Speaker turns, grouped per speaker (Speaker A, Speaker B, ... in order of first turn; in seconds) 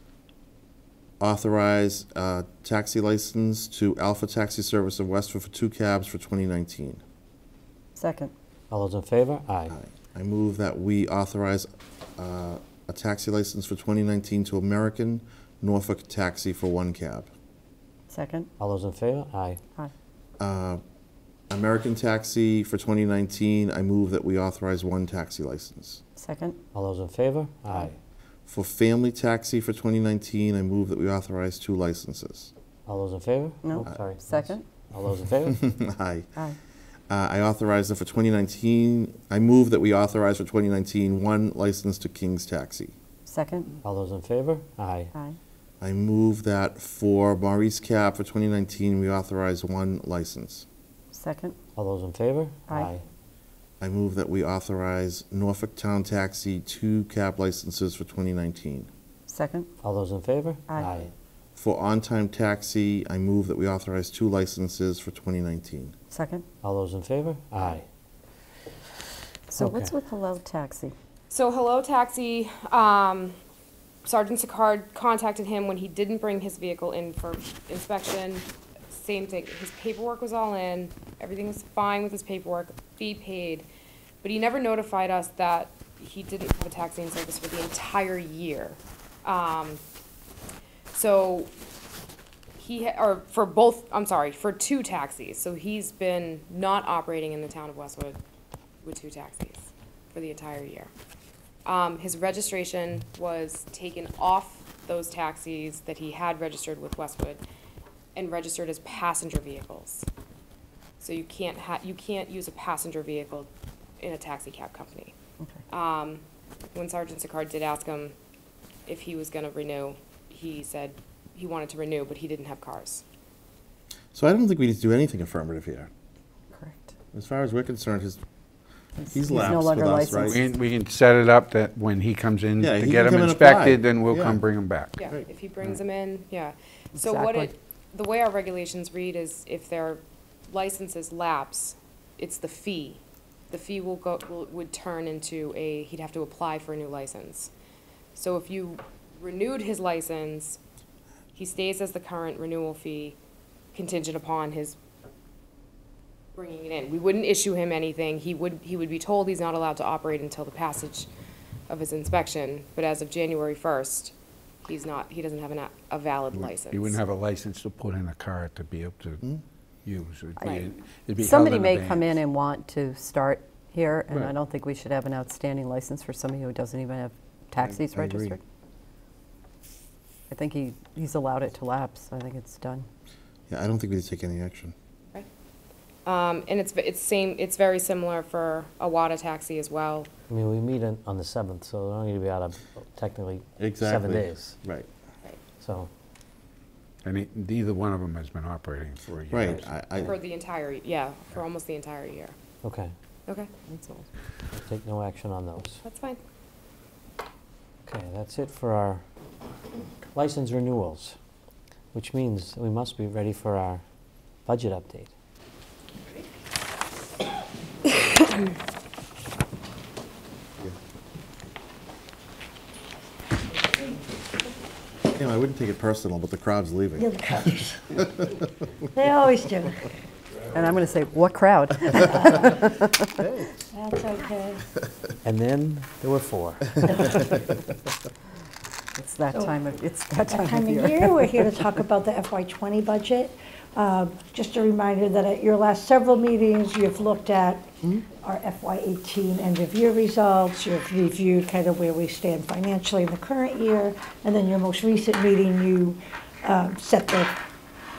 Speaker A: 1.2-7.0, 9.7-17.3, 20.4-20.8, 21.5-26.0, 28.4-32.5, 35.5-36.3, 37.1-43.0, 45.8-50.7, 53.8-58.9, 61.5-65.9, 124.1-125.9, 127.1-128.2, 129.1-130.4, 132.6-134.4, 177.6-178.3, 183.5-184.8, 193.6-194.9, 199.3-200.2, 225.1-227.1
Speaker B: 8.0-8.3, 18.1-18.5, 26.2-26.6, 33.6-34.6, 43.2-43.7, 51.1-51.6, 59.3-59.7, 60.7-61.0, 66.1-66.4, 69.5-70.9, 126.5-126.9, 129.0-130.5, 137.0-137.5, 170.4-178.4, 180.3-182.9, 203.7-204.0, 230.5-233.1, 239.0-241.7
Speaker C: 8.7-9.7, 18.6-19.6, 26.7-27.9, 32.9-35.6, 43.8-45.1, 51.8-53.0, 59.8-61.1, 66.6-67.9, 69.5-69.9, 190.3-194.6, 195.6-195.9, 202.6-202.9, 204.5-205.8, 207.9-209.0, 210.1-211.2, 211.9-213.8, 214.5-215.1, 235.2-237.2
Speaker D: 71.3-73.4, 74.0-83.7, 84.2-89.8, 90.9-91.5, 92.6-98.2, 98.8-100.9, 101.7-107.4, 108.1-110.1, 111.0-113.5, 114.0-115.1, 115.7-116.2, 116.7-118.1, 118.9-123.0, 135.0-147.5, 148.2-150.6, 151.3-153.2, 153.7-154.8, 156.3-161.1, 161.7-167.0, 186.1-190.1, 200.0-202.4, 203.3-203.6, 205.8-206.2
Speaker E: 130.3-135.0, 166.7-169.2, 169.8-172.2, 197.0-199.7
Speaker F: 227.0-227.9, 228.9-229.9, 232.0-232.7, 233.7-234.6, 240.3-257.4